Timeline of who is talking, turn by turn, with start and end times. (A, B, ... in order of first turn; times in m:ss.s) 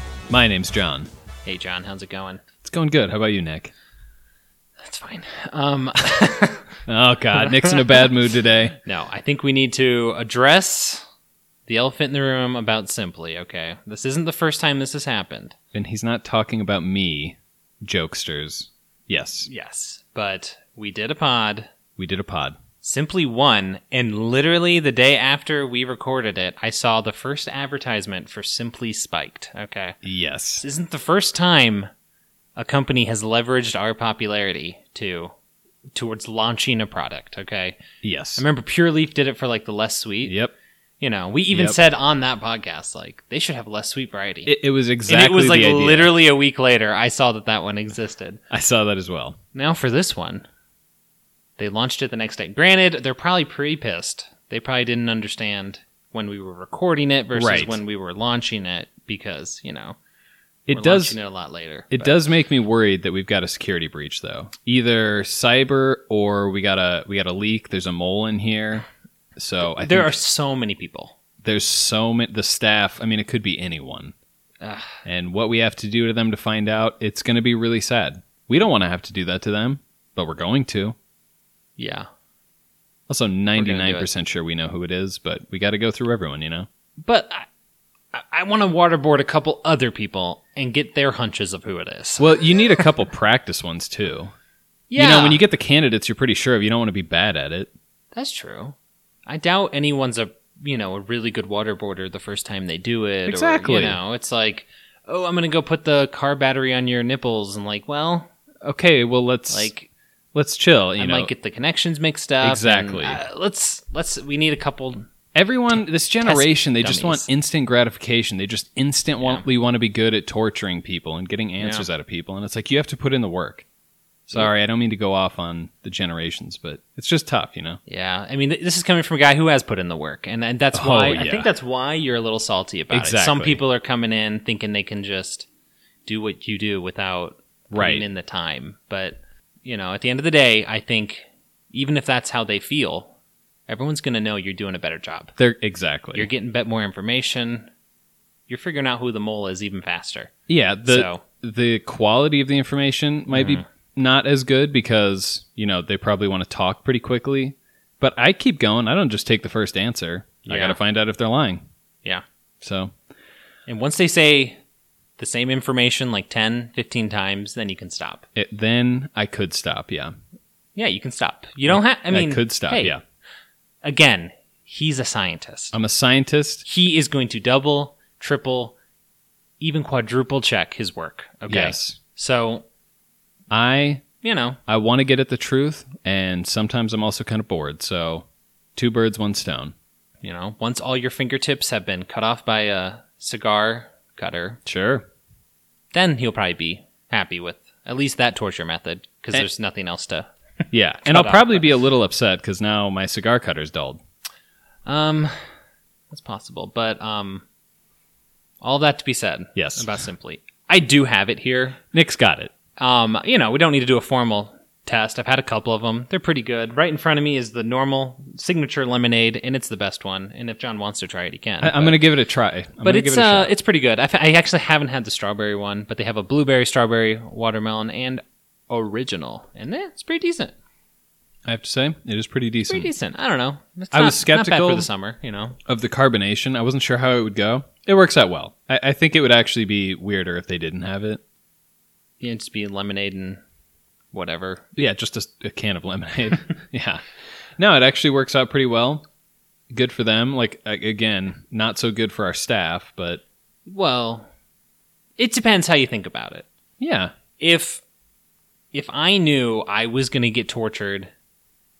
0:00.3-0:01.1 A
0:01.5-0:02.4 B
0:02.6-0:03.7 A
0:04.8-0:06.8 B
0:06.9-0:08.8 A
0:07.4-0:08.0 B
0:08.8-0:11.0 B
0:11.7-0:15.6 B
0:15.7-0:19.5 A
0:19.5-0:21.7 B
0:22.0-0:22.6 A
0:22.8-0:30.0 B
0:30.0-0:30.6 A
0:30.6-0:31.9 B
0:32.6-0:35.3 B
0:36.0-0:37.8 B
0:38.0-0:38.4 A
0:38.4-0:40.4 B
0:40.3-0:40.6 A
0:41.0-0:44.6 B
0:41.5-0:41.8 A
0:44.5-0:46.1 A
0:45.1-0:48.4 B
0:48.5-0:49.4 A
0:49.5-0:50.5 B
0:51.6-1:00.0 B
0:57.3-0:57.8 A
1:00.7-1:01.2 A
1:00.7-1:02.2 B
1:01.9-1:10.1 A
1:09.6-1:11.1 B
1:11.4-1:14.1 A
1:14.6-1:15.0 B
1:15.0-1:21.0 A
1:21.8-1:22.1 B
1:23.1-1:26.7 A
1:23.6-1:24.1 B
1:27.0-1:27.5 B
1:28.1-1:32.9 B
1:32.2-1:34.3 A
1:34.9-1:35.4 B
1:35.0-1:37.7 A
1:38.1-1:38.8 B
1:39.3-1:48.3 B
1:43.3-1:44.0 A
1:48.6-1:49.7 A
1:49.5-1:49.9 B
1:50.3-1:51.3 A
1:51.0-1:55.0 B
1:52.4-1:53.2 A
1:55.4-2:03.6 A
1:55.7-1:57.3 B
2:01.6-2:01.8 B
2:04.3-2:07.8 A
2:07.9-2:15.5 B
2:10.7-2:11.5 A
2:12.9-2:13.6 A
2:16.1-2:23.1 B
2:17.7-2:18.0 A
2:23.7-2:25.4 B
2:25.4-2:26.3 A
2:26.1-2:27.7 B
2:28.5-2:30.3 B
2:30.5-2:41.6 A
2:30.8-2:31.2 B
2:33.3-2:33.6 B
2:40.5-2:40.8 B
2:42.6-2:42.9 A
2:43.7-2:44.6 B
2:45.2-2:48.3 B
2:48.4-2:50.1 A
2:50.8-2:53.0 B
2:51.7-2:53.0 A
2:53.8-2:55.8 B
2:55.7-2:56.6 A
2:56.6-2:58.8 B
2:59.6-3:02.6 B
3:01.5-3:02.0 A
3:03.5-3:04.0 A
3:04.2-3:04.6 B
3:04.7-3:09.7 A
3:10.2-3:14.6 B
3:14.7-3:15.1 A
3:15.9-3:21.7 B
3:20.7-3:24.0 A
3:24.9-3:25.5 B
3:26.1-3:27.4 B
3:28.6-3:31.8 B
3:29.6-3:29.9 A
3:31.9-3:32.5 A
3:32.8-3:42.0 B
3:41.6-3:43.5 A
3:42.8-3:50.5 B
3:51.5-3:52.9 A
3:52.7-3:55.6 B
3:53.9-3:54.9 A
3:55.7-4:01.2 A
4:02.2-4:03.4 B
4:04.1-4:04.7 B
4:04.8-4:07.0 A
4:07.6-4:09.0 A
4:09.7-4:13.2 A
4:13.7-4:14.3 B
4:15.2-4:16.5 B
4:16.8-4:17.1 A
4:17.4-4:17.8 B
4:18.7-4:21.1 B